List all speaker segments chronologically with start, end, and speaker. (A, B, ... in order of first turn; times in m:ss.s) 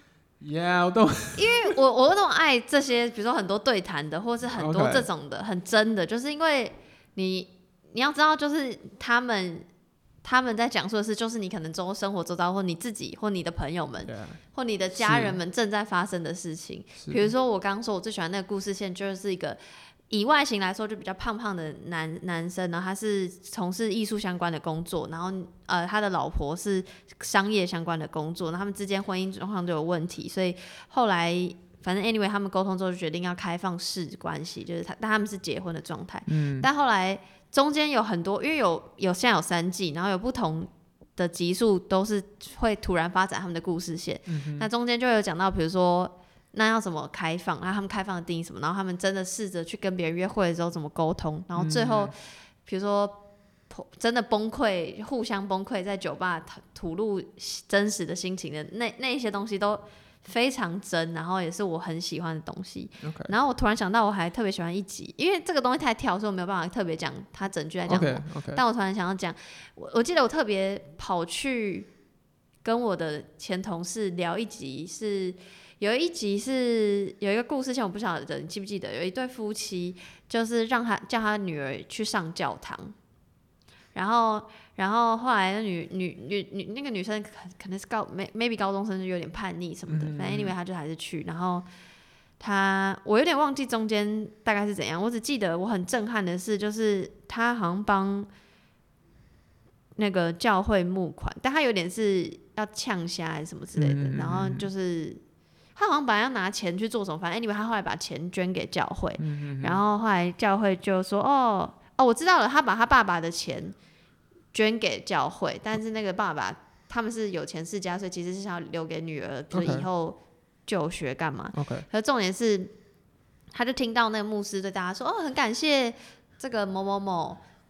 0:00.4-0:01.8 A
0:01.4-0:09.7 B
0:04.6-0:05.1 A
0:10.2-1:11.9 B
0:14.0-0:14.4 A
0:14.9-0:15.4 A
0:17.0-0:17.3 A
0:36.3-0:36.7 A
0:44.3-0:44.7 A
0:51.6-0:52.1 A
1:03.0-1:03.3 A
1:07.9-1:08.6 A
1:12.6-1:22.9 B
1:23.9-1:31.7 B
1:29.9-1:30.5 A
1:32.4-1:38.3 B
1:40.0-1:45.2 B
1:43.8-1:44.7 A
1:45.8-1:53.8 B
1:49.2-1:49.8 A
1:54.5-2:02.7 B
1:59.5-1:59.9 A
2:01.5-2:01.8 A
2:03.5-2:07.4 B